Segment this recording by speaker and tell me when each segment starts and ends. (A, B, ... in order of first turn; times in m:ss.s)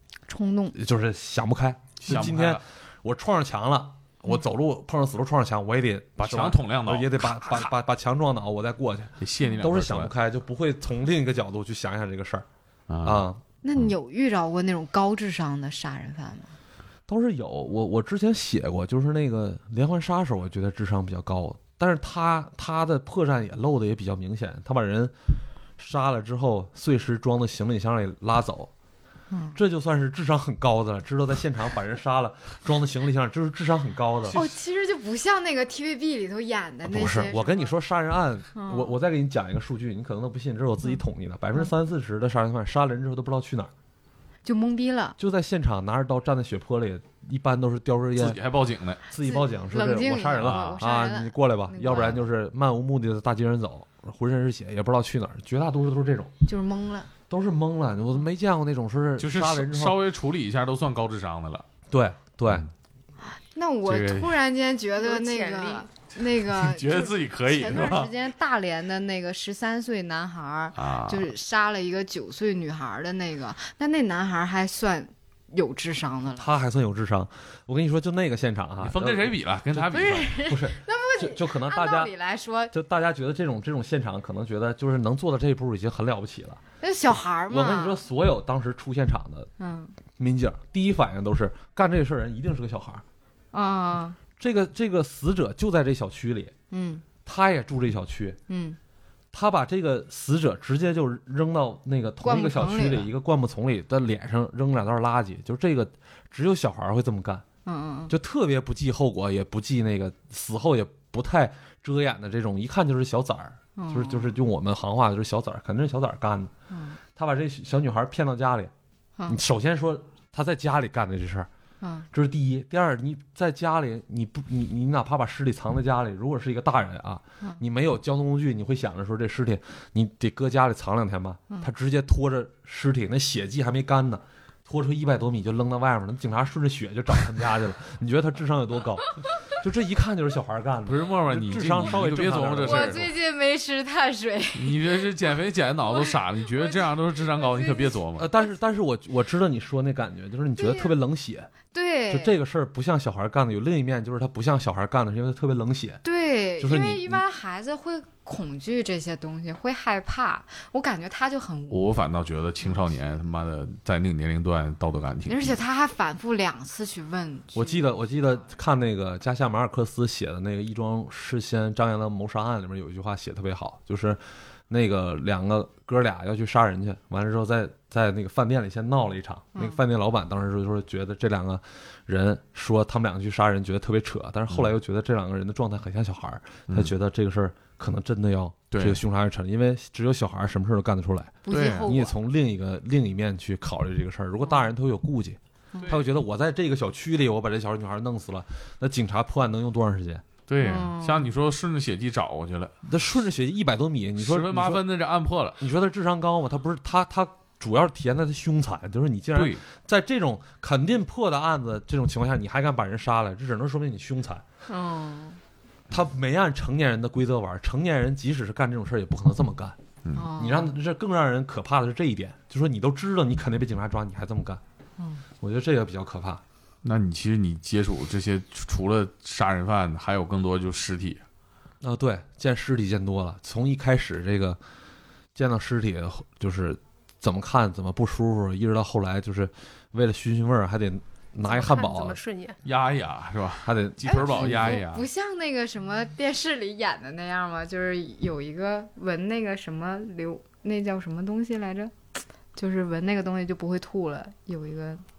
0:00.3-0:00.8 A
0:00.7-0:12.5 B
0:02.0-0:02.6 C
0:06.2-0:07.7 C
0:09.2-0:10.1 C
0:12.9-0:13.9 C
0:13.0-0:13.4 B
0:13.6-0:16.5 A
0:17.1-0:25.1 B
0:25.8-0:28.7 B
0:29.3-0:29.6 A
0:29.5-0:34.4 B
0:34.3-0:34.6 C
0:34.3-0:37.7 A
0:36.9-0:43.7 B
0:38.6-0:38.9 A
0:44.4-0:45.2 A
0:45.2-0:48.4 B
0:48.2-0:49.0 C
0:49.1-0:56.3 B
0:49.2-0:52.2 A
0:50.4-0:50.8 C
0:56.4-0:57.1 A
0:57.3-1:00.0 B
0:59.2-1:01.7 C
1:01.9-1:02.7 B
1:03.4-1:16.5 A
1:03.8-1:04.4 C
1:05.0-1:05.9 D
1:06.4-1:08.1 C
1:10.8-1:11.3 C
1:16.4-1:22.1 B
1:18.8-1:20.5 C
1:19.9-1:22.7 A
1:22.7-1:26.6 B
1:26.8-1:28.0 A
1:27.5-1:29.5 B
1:29.6-1:29.9 A
1:30.2-1:33.0 B
1:33.5-1:34.2 A
1:34.4-1:36.5 B
1:36.7-1:37.0 A
1:37.2-1:38.4 B
1:38.5-1:38.8 A
1:39.3-1:47.4 B
1:42.2-1:43.1 A
1:47.7-1:48.1 A
1:48.1-1:56.5 B
1:53.8-1:54.3 A
1:56.7-1:57.0 A
1:57.2-1:58.7 B
1:59.3-2:01.5 B
2:01.8-2:02.1 A
2:02.1-2:23.1 B
2:20.9-2:23.1 C
2:22.6-2:25.2 A
2:24.5-2:28.3 C
2:25.9-2:28.5 A
2:28.2-2:31.5 B
2:30.6-2:30.9 A
2:31.7-2:32.4 A
2:32.1-2:36.0 B
2:36.0-2:41.9 A
2:36.6-2:37.2 B
2:41.7-2:45.6 C
2:45.3-2:47.9 A
2:47.5-3:20.2 B
2:59.6-2:59.8 A
3:08.7-3:09.0 C
3:11.4-3:12.2 A
3:11.5-3:11.9 C
3:20.5-3:22.7 C
3:20.6-3:21.3 A
3:22.8-3:24.8 B
3:24.2-3:25.6 C
3:25.6-3:34.4 B
3:29.3-3:29.6 C
3:34.7-3:35.4 A
3:35.9-3:39.8 B
3:40.2-3:40.7 A
3:40.4-3:44.6 B
3:45.4-3:46.4 B
3:46.8-3:51.2 C
3:51.8-3:54.6 B
3:55.4-4:02.2 B
4:01.5-4:02.6 D
4:02.6-4:05.1 C
4:03.6-4:04.8 B
4:04.0-4:11.9 A
4:12.6-4:15.0 A